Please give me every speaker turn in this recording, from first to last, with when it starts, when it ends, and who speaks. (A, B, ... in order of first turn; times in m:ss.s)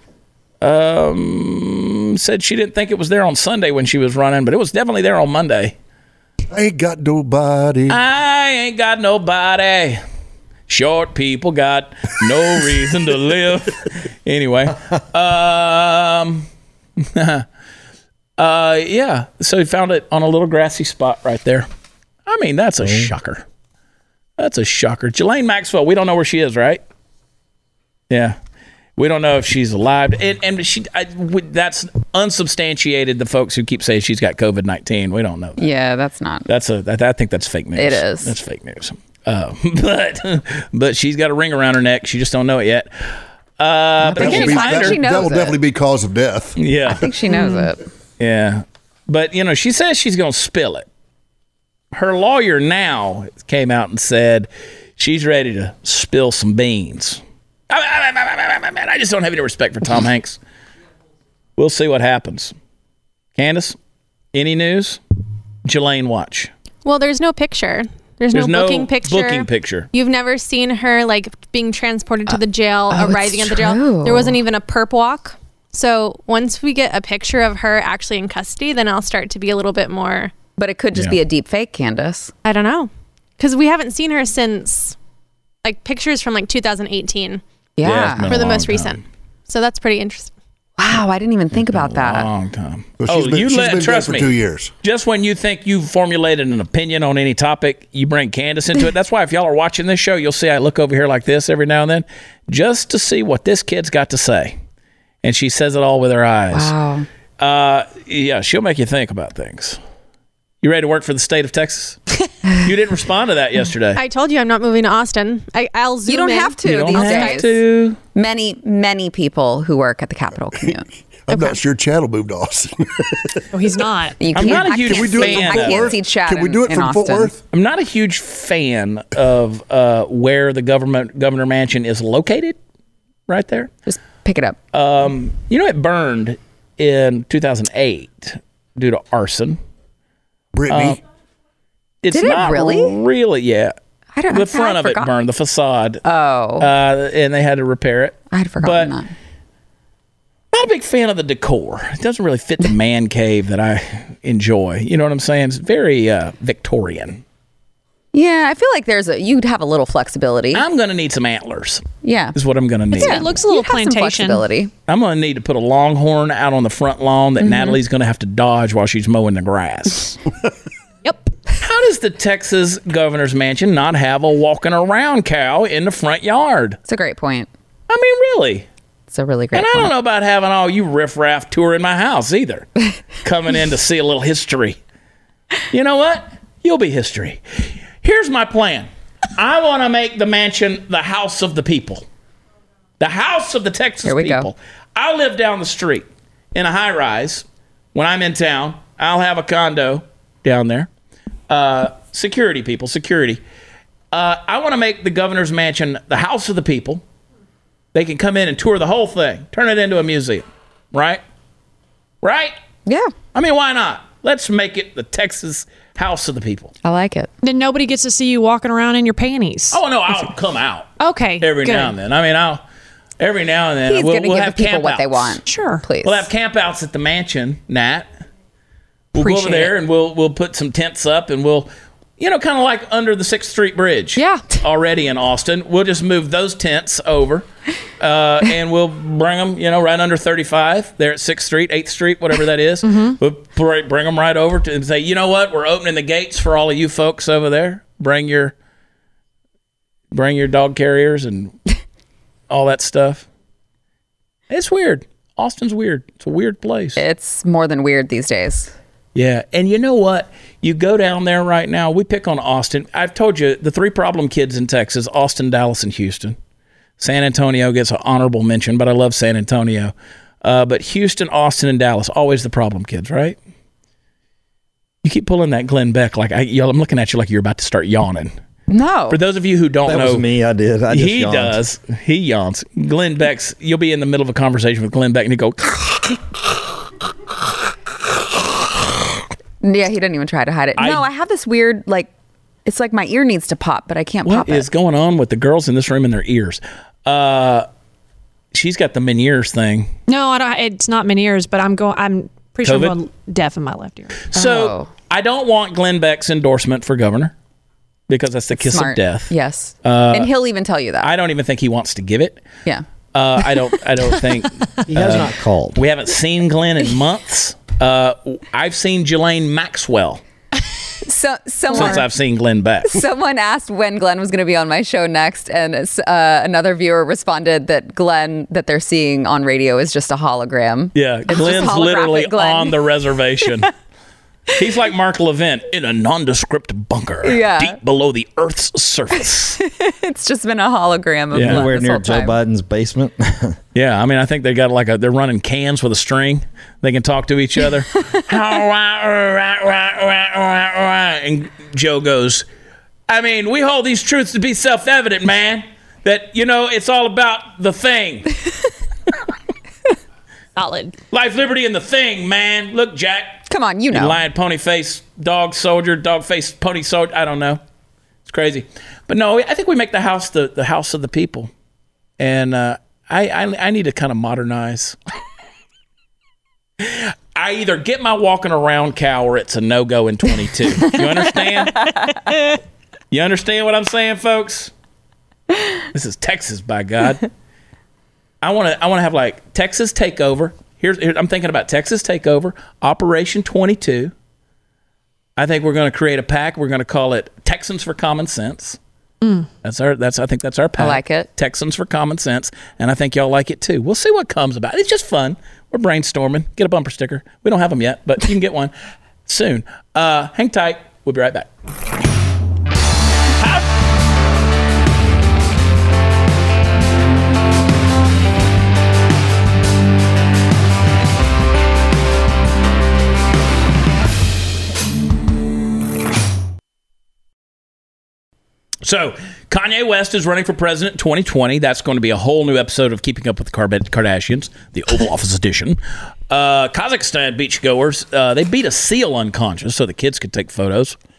0:00.6-0:05.7 A
0:06.5-0:08.0 B
0:07.9-0:10.0 A
0:10.7-0:16.5 A
0:17.0-0:17.4 A
0:18.4-0:21.6 A
0:22.3-0:23.4 A
0:24.4-0:26.8 A
0:28.1-0:28.4 A
0:29.0-0:35.6 A
0:35.6-0:36.5 C
0:36.5-0:42.9 A
0:37.8-0:38.3 C
0:43.6-0:45.0 A
0:44.0-0:45.6 C
0:44.1-0:46.6 B
0:46.6-0:47.1 A
0:46.9-0:47.8 C
0:47.3-0:47.6 D
0:48.2-0:50.9 A
0:51.9-1:00.4 A
1:01.6-1:02.5 A
1:03.4-1:03.8 A
1:04.3-1:05.0 A
1:05.6-1:06.5 A
1:06.8-1:20.3 E
1:08.3-1:09.9 A
1:12.9-1:14.4 C
1:20.6-1:22.3 C
1:22.4-1:25.0 E
1:25.6-1:27.4 E
1:27.8-1:28.4 C
1:27.8-1:29.0 A
1:28.2-1:30.3 E
1:30.8-1:32.3 C
1:31.5-1:44.6 A
1:33.0-1:34.7 B
1:45.2-1:46.7 A
1:46.5-1:47.0 C
1:47.4-1:49.8 A
1:50.6-1:52.0 A
1:52.5-1:54.0 A
1:53.9-1:57.4 E
1:56.1-1:57.6 C
1:56.6-1:58.0 A
1:58.1-2:01.6 C
2:01.3-2:03.4 B
2:03.5-2:04.2 D
2:04.2-2:07.3 C
2:04.3-2:05.9 A
2:04.3-2:07.4 B
2:07.5-2:12.6 A
2:13.3-2:13.7 A
2:13.9-2:14.6 C
2:14.7-2:19.6 A
2:20.5-2:21.0 B
2:20.7-2:21.0 A
2:22.0-2:23.7 A
2:22.1-2:23.0 C
2:24.1-2:25.1 C
2:24.3-2:26.0 A
2:26.0-2:26.7 C
2:26.6-2:28.9 A
2:28.3-2:29.1 C
2:30.5-2:37.2 A
2:38.1-2:40.6 C
2:40.5-2:43.2 A
2:42.0-2:42.4 C
2:42.9-2:44.5 D
2:42.9-2:44.7 C
2:44.9-2:50.2 A
2:47.4-2:47.8 C
2:51.0-2:51.3 D
2:51.6-2:56.8 A
2:56.9-2:57.5 C
2:57.9-2:58.7 A
2:59.1-2:59.9 C
2:59.5-3:04.8 A
3:05.7-3:07.4 A
3:08.0-3:12.0 A
3:13.0-3:20.9 A
3:14.0-3:14.5 C
3:21.5-3:23.4 A
3:24.1-3:27.0 A
3:27.9-3:31.2 A
3:32.2-3:32.5 A
3:32.9-3:33.1 C
3:33.3-3:36.7 A
3:36.8-3:37.3 C
3:37.4-3:39.8 D
3:39.7-3:42.6 A
3:41.0-3:42.0 D
3:43.2-3:45.4 A
3:43.9-3:46.3 C
3:45.4-3:45.8 D
3:46.0-3:48.1 A
3:49.1-3:57.4 A
3:49.2-3:49.7 D
3:54.1-3:54.5 D
3:58.0-4:08.5 A
4:02.8-4:03.2 D
4:10.1-4:11.6 A
4:12.5-4:13.3 A
4:14.5-4:17.0 A
4:17.0-4:18.7 C
4:19.1-4:26.4 A
4:27.0-4:33.4 A
4:35.0-4:38.3 A
4:38.7-4:39.2 C
4:39.1-4:40.3 A
4:39.8-4:41.6 F
4:40.9-4:46.2 A
4:49.6-4:52.1 C
4:50.8-4:51.1 A
4:52.6-4:54.7 C
4:54.2-4:57.6 A
4:58.5-4:59.9 A
5:00.1-5:04.2 D
5:02.6-5:03.0 A
5:04.3-5:07.3 A
5:04.3-5:04.9 C
5:08.1-5:09.3 A
5:08.6-5:11.1 C
5:09.8-5:10.3 A
5:11.0-5:12.5 A
5:13.1-5:20.2 A
5:14.9-5:15.8 F
5:21.0-5:22.0 C
5:21.7-5:23.0 A
5:21.7-5:22.0 D
5:22.9-5:32.8 C
5:30.9-5:33.7 A
5:34.5-5:39.6 A
5:37.2-5:37.8 C
5:39.6-5:42.4 C
5:41.3-5:41.7 A
5:41.4-5:43.6 F
5:43.7-5:52.4 A
5:53.1-5:58.4 A
6:00.6-6:00.9 D
6:01.1-6:07.6 A
6:03.5-6:04.2 C
6:08.3-6:11.5 A
6:12.2-6:15.0 A
6:16.8-6:21.9 A
6:23.1-6:24.7 A
6:25.9-6:27.3 A
6:28.4-6:34.1 A
6:35.4-6:38.8 A
6:39.2-6:39.5 D
6:39.6-6:48.7 A
6:40.8-6:41.3 C
6:49.3-6:51.5 A
6:53.4-6:53.7 A
7:08.8-7:15.8 A
7:16.3-7:21.0 A